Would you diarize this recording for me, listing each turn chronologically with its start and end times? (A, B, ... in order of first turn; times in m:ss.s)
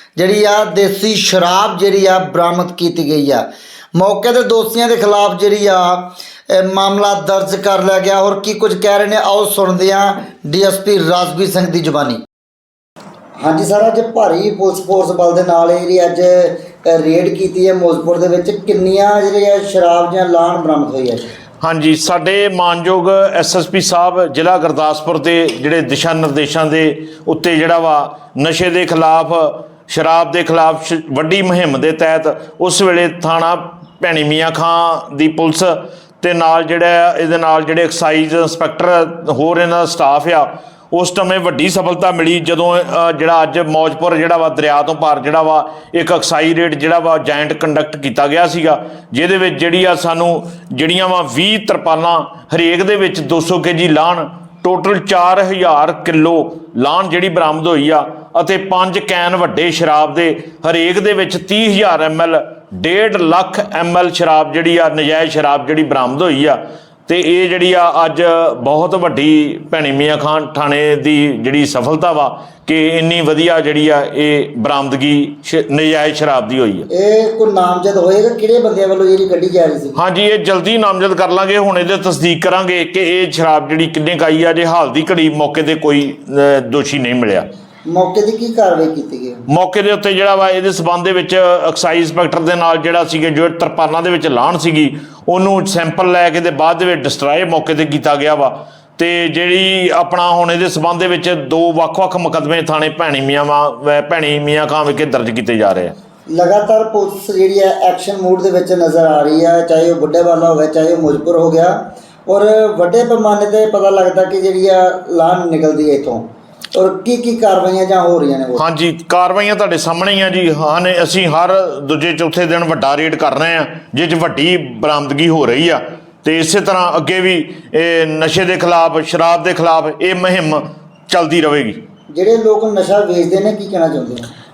0:00.2-0:12.2 A
0:13.4-0:21.3 A
0:21.6-1:16.9 B
1:16.9-1:20.0 A
1:20.0-1:27.5 B
1:27.9-1:29.4 A
1:29.5-1:45.9 B
1:46.3-1:58.6 A
1:58.6-2:11.8 B
2:12.1-2:14.3 A